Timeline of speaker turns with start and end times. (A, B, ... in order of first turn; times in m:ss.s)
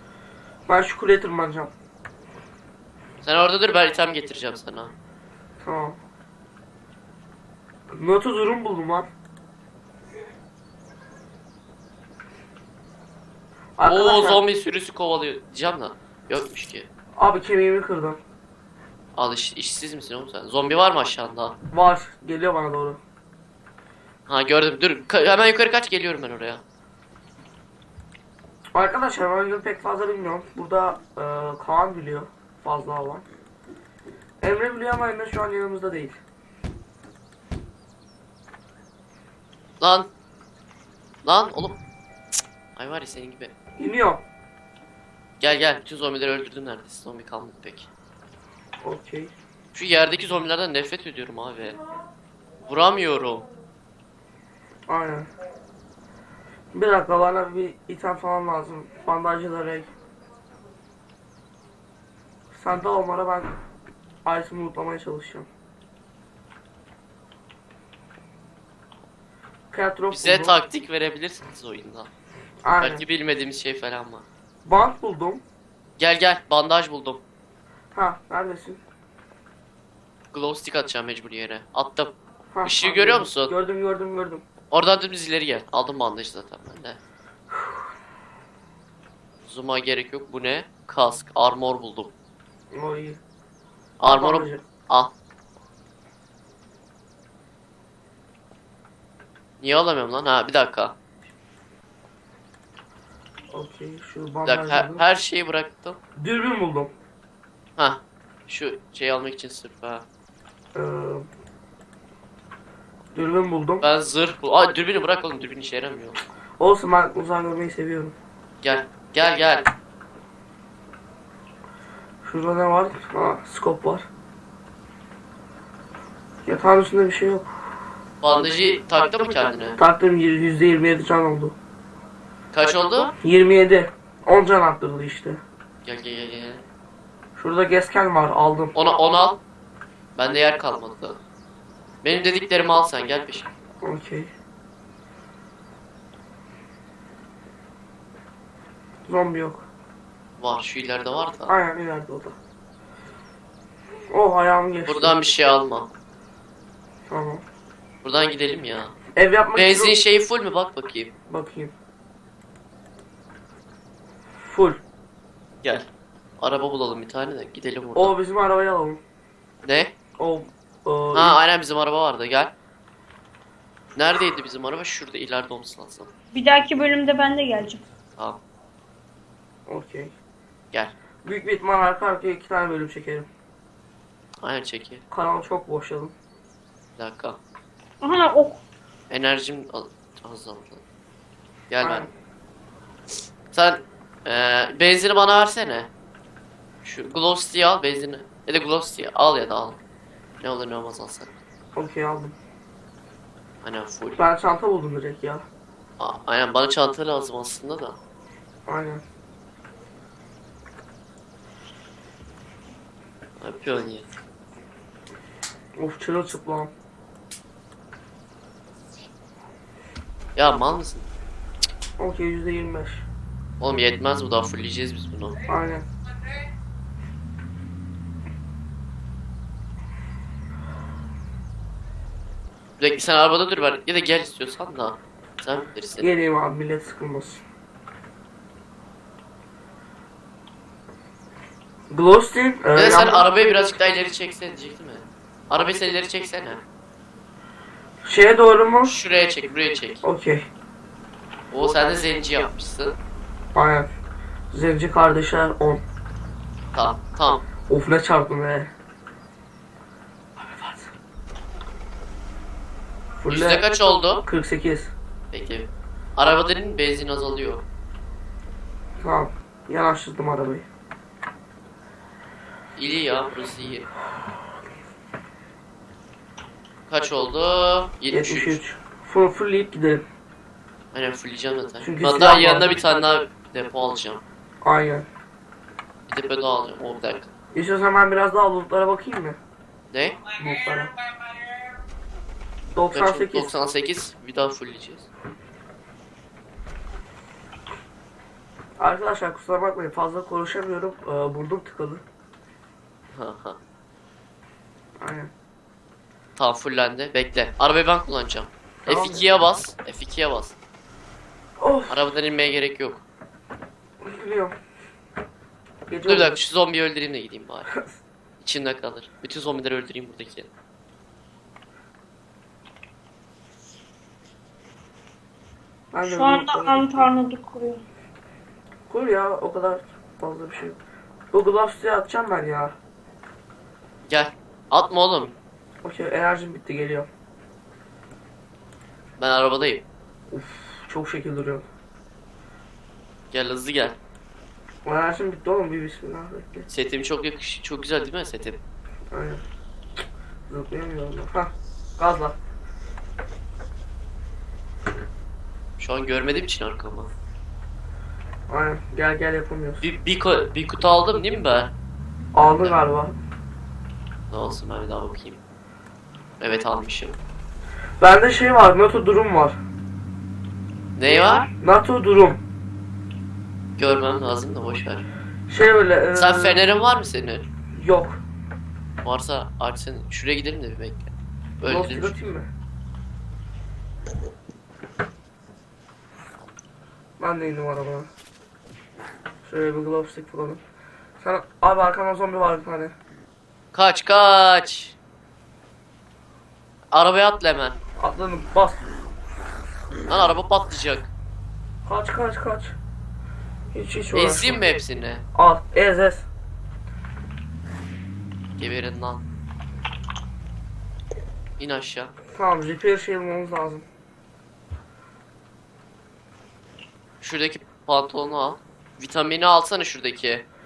0:00.7-0:01.7 A
0:03.2-0:04.9 B
0:05.6-0:06.0 A
0:07.9-0:09.1 A
0:13.8-0:14.4 A
0:13.8-0:16.9 B
0:17.2-0:18.2 A
0:19.2-0:21.6 B
0:21.7-0:23.0 A
0:24.3-0:26.6 B
0:28.7-0:33.2 A
0:34.4-0:36.2 A
0:39.8-0:40.1 B
0:41.2-0:41.8 B
0:42.8-0:43.5 B
0:43.8-0:44.2 A
0:45.4-0:47.9 B
0:48.8-0:49.3 A
0:49.7-0:51.8 B
0:52.6-0:53.5 B
0:54.9-0:55.3 A
0:56.7-0:59.9 A
1:02.5-1:03.5 A
1:04.2-1:05.5 A
1:09.7-1:10.6 A
1:10.1-1:12.1 B
1:12.6-1:13.0 A
1:12.8-1:14.2 B
1:14.6-1:15.4 A
1:16.0-1:17.2 B
1:17.9-1:18.8 A
1:20.3-1:23.5 B
1:22.5-1:24.4 A
1:24.7-1:27.0 B
1:29.4-1:32.1 B
1:32.7-1:33.2 A
1:34.0-1:35.1 B
1:34.0-1:34.6 A
1:39.6-1:40.9 B
1:43.5-1:45.0 A
1:44.4-1:46.0 B
1:46.2-1:46.9 A
1:47.8-1:50.0 B
1:50.7-1:51.2 A
1:53.1-1:53.8 A
1:53.8-1:56.2 B
1:56.6-1:58.1 A
1:58.6-1:59.7 B
2:02.2-2:04.0 A
2:06.4-2:07.5 A
2:08.2-2:09.8 B
2:09.8-2:11.6 A
2:12.5-2:13.1 B
2:13.2-2:15.4 A
2:15.8-2:16.6 B
2:17.4-2:18.7 A
2:18.7-2:19.4 B
2:20.1-2:21.2 B
2:22.0-2:23.5 B
2:23.8-2:24.3 A
2:29.0-2:29.7 A
2:30.4-2:31.5 B
2:31.5-2:32.4 A
2:34.1-2:35.1 A
2:34.8-2:35.9 B
2:37.1-2:37.4 A
2:38.0-2:38.9 B
2:39.1-2:40.0 A
2:39.5-2:41.1 B
2:41.3-2:41.7 A
2:44.4-2:44.8 A
2:46.4-2:48.1 B
2:47.9-2:49.0 A
2:49.6-2:49.9 B
2:50.2-2:51.4 A
2:51.1-2:52.5 B
2:53.9-2:56.1 B
2:56.3-2:57.8 C
2:59.6-3:00.1 A
3:01.2-3:03.3 A
3:04.4-3:05.0 B
3:05.1-3:06.1 A
3:07.0-3:07.4 B
3:08.0-3:08.6 C
3:09.1-3:10.8 B
3:11.7-3:12.0 B
3:11.8-3:12.1 A
3:13.5-3:15.9 B
3:16.8-3:19.8 B
3:20.4-3:21.3 B
3:21.7-3:22.4 A
3:23.6-3:24.2 B
3:24.2-3:25.4 A
3:26.0-3:28.0 B
3:28.6-3:29.0 A
3:33.4-3:34.0 B
3:35.8-3:36.7 A
3:40.4-3:41.1 B
3:42.0-3:43.0 A
3:43.6-3:45.4 B
3:45.5-3:45.9 A
3:52.8-3:56.1 B
3:56.0-3:57.4 A
4:01.9-4:03.2 A
4:02.7-4:06.6 B
4:08.0-4:08.9 A
4:08.8-4:10.0 B
4:10.0-4:10.5 A
4:11.5-4:13.0 B
4:13.5-4:13.9 A
4:14.5-4:15.8 A
4:16.7-4:17.4 B
4:17.7-4:18.7 A
4:20.4-4:20.9 A
4:23.2-4:23.6 A
4:23.3-4:24.2 B
4:24.2-4:24.9 A
4:25.3-4:27.6 B
4:29.0-4:30.6 A
4:32.8-4:33.9 B
4:36.9-4:38.6 B
4:38.1-4:40.0 A
4:40.9-4:44.2 B
4:41.8-4:42.7 A
4:44.6-4:45.1 A
4:46.1-4:47.3 B
4:47.5-4:49.4 A
4:49.9-4:50.2 B
4:50.3-4:50.9 A
4:52.7-4:53.5 A
4:52.9-4:55.1 B
4:58.8-5:02.0 A
5:03.1-5:03.6 B
5:05.0-5:05.3 A
5:06.4-5:10.6 B
5:08.8-5:09.3 A
5:11.6-5:12.0 A
5:11.9-5:13.0 B
5:14.0-5:14.5 A
5:15.9-5:16.4 A
5:16.0-5:17.7 B
5:18.4-5:20.5 B
5:25.9-5:27.1 A
5:26.0-5:27.8 C
5:28.9-5:30.8 A
5:31.3-5:32.7 A
5:34.1-5:35.3 B
5:35.8-5:37.1 A
5:39.2-5:39.8 B
5:40.3-5:41.6 A
5:43.3-5:44.0 B
5:44.8-5:46.7 A
5:46.7-5:48.6 B
5:49.1-5:49.4 A
5:50.5-5:52.4 A
5:55.8-5:57.1 B
5:58.5-5:59.8 A
5:59.8-6:01.7 B
6:02.3-6:03.2 A
6:02.5-6:02.8 B
6:04.3-6:05.4 B
6:06.4-6:07.2 B
6:08.0-6:09.6 A
6:11.0-6:11.5 B
6:11.6-6:12.4 A
6:13.8-6:15.0 B
6:15.5-6:16.6 A
6:16.1-6:17.4 B
6:17.7-6:18.2 A
6:19.0-6:22.2 B
6:21.6-6:22.5 A
6:27.2-6:28.1 A
6:29.4-6:30.6 A
6:31.2-6:32.9 A
6:33.7-6:35.0 B
6:36.9-6:37.8 B
6:38.0-6:38.9 A
6:40.1-6:41.1 B
6:41.8-6:42.8 A
6:43.7-6:44.6 A
6:44.1-6:45.2 B
6:45.3-6:46.3 A
6:48.6-6:49.2 B
6:51.6-6:52.1 B
6:52.3-6:53.8 A
6:57.2-7:00.4 B